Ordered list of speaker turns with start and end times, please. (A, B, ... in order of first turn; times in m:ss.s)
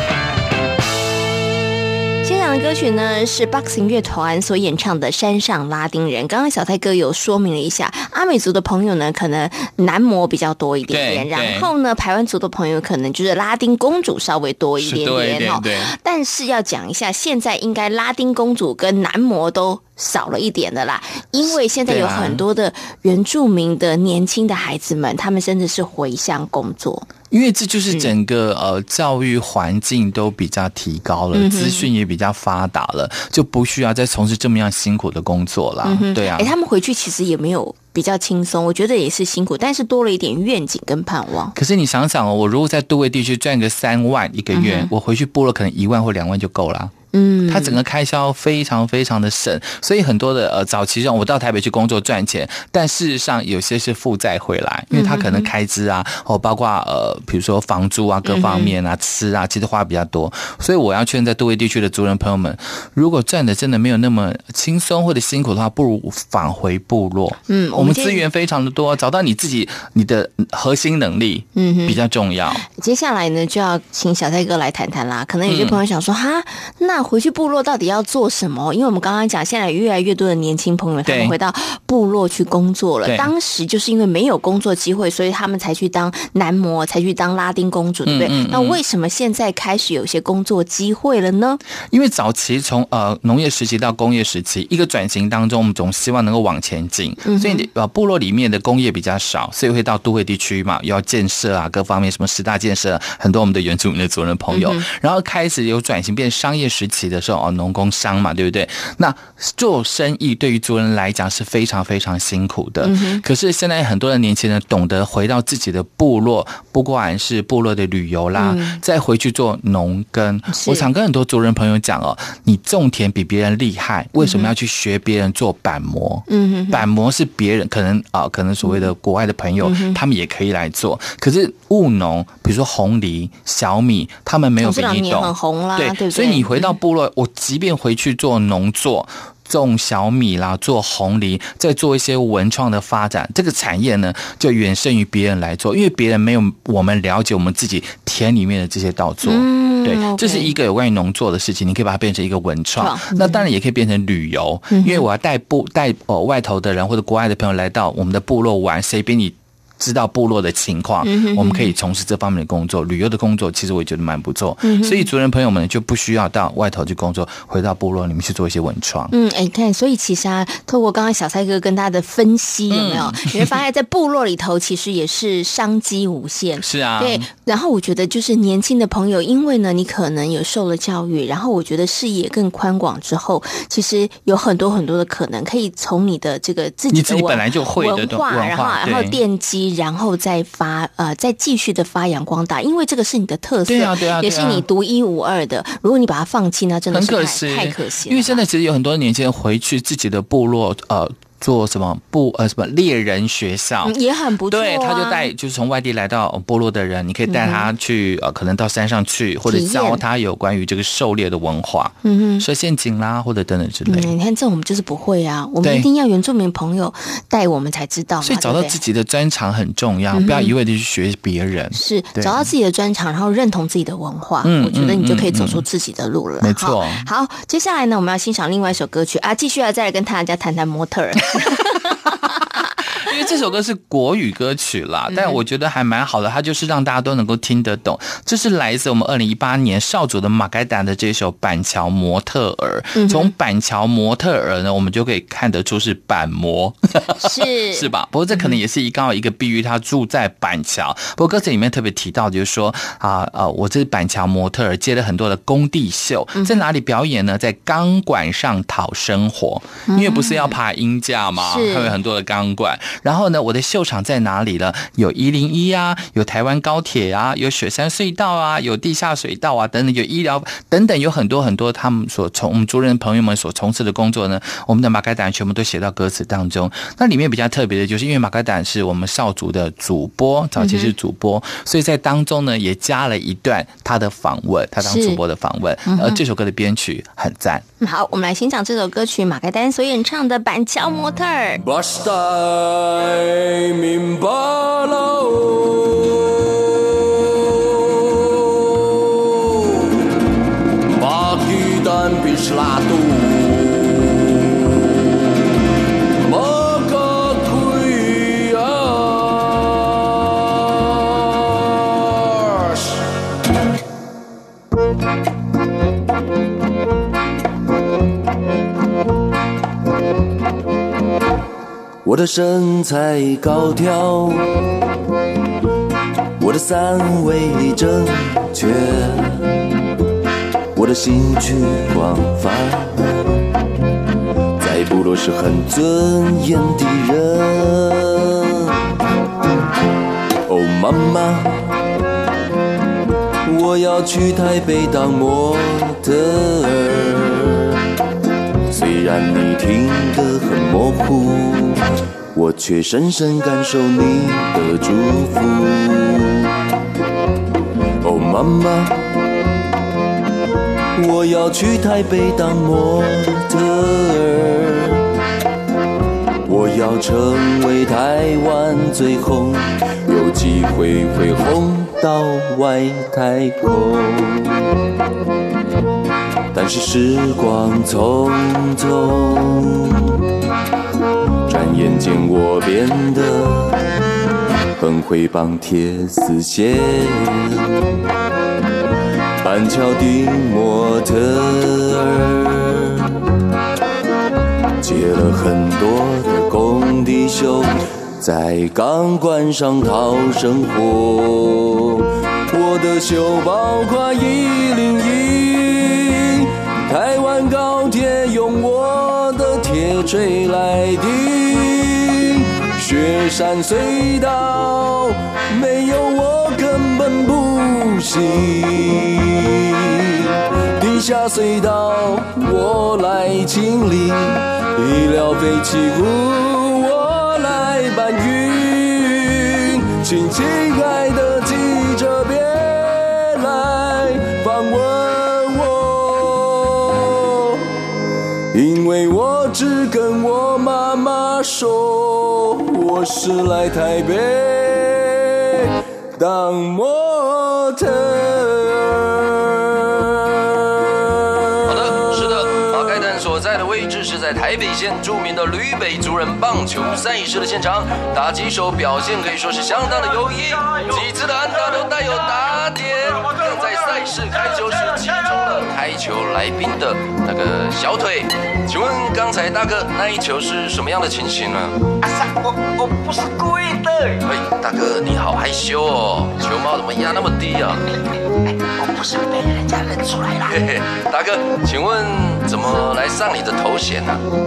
0:02.2-0:27.1 A
0:10.9-0:11.7 B
0:14.8-0:15.9 B
0:21.9-0:22.4 B
0:27.3-0:36.5 B
0:31.3-0:31.9 A
0:35.8-0:41.5 A
0:41.6-0:46.9 B
0:44.5-0:44.9 A
0:47.1-0:47.8 A
0:47.5-1:12.6 B
0:54.9-0:55.5 A
0:58.3-0:58.8 A
1:07.5-1:08.2 A
1:11.6-1:12.0 A
1:12.6-1:31.6 A
1:15.5-1:15.8 B
1:21.0-1:21.4 B
1:23.0-1:23.3 B
1:28.1-1:28.8 B
1:31.9-2:49.1 B
1:37.2-1:37.6 A
1:44.5-1:44.8 A
1:52.8-1:53.2 A
1:58.4-1:58.8 A
2:00.5-2:00.9 A
2:04.2-2:04.5 A
2:06.3-2:06.8 A
2:09.6-2:10.0 A
2:14.6-2:16.7 A
2:29.2-2:30.5 A
2:32.8-2:33.4 A
2:34.7-2:35.1 A
2:41.0-2:41.7 A
2:44.6-2:45.1 A
2:49.1-3:18.4 A
2:52.7-2:53.5 B
2:56.6-2:57.3 B
3:06.9-3:09.2 B
3:13.6-3:14.6 B
3:16.9-3:24.0 B
3:23.8-3:25.3 A
3:24.5-3:34.1 B
3:27.3-3:27.7 A
3:29.5-3:30.0 A
3:32.0-3:32.4 A
3:33.9-3:38.8 A
3:38.2-3:42.5 B
3:40.1-3:40.5 A
3:41.7-3:52.1 A
3:44.4-3:45.6 B
3:46.4-3:47.1 B
3:52.9-4:47.6 B
3:55.1-3:55.4 A
4:02.9-4:03.3 A
4:07.2-4:08.5 A
4:16.4-4:16.6 A
4:19.9-4:20.5 A
4:21.4-4:21.9 A
4:40.6-4:40.9 A
4:44.8-4:45.2 A
4:45.9-4:46.2 A
4:47.8-4:51.6 A
4:51.6-4:59.9 C
5:00.9-5:05.2 C
5:06.2-5:13.0 C
5:22.0-5:24.5 C
5:26.4-5:29.5 C
5:30.7-5:33.4 C
5:34.6-5:38.6 C
5:40.5-5:41.7 C
5:43.4-5:47.7 C
5:48.7-5:56.5 C
5:58.0-5:59.0 C
6:00.9-6:05.0 C
6:06.4-6:14.5 C
6:16.5-6:20.0 C
6:21.5-6:23.8 C
6:24.8-6:27.7 C
6:29.4-6:32.9 C
6:34.8-7:17.6 C
7:18.5-7:29.9 C
7:31.6-7:51.8 D
7:52.0-7:54.1 E
7:54.2-7:57.8 D
7:58.8-8:00.3 E
8:00.4-8:04.2 D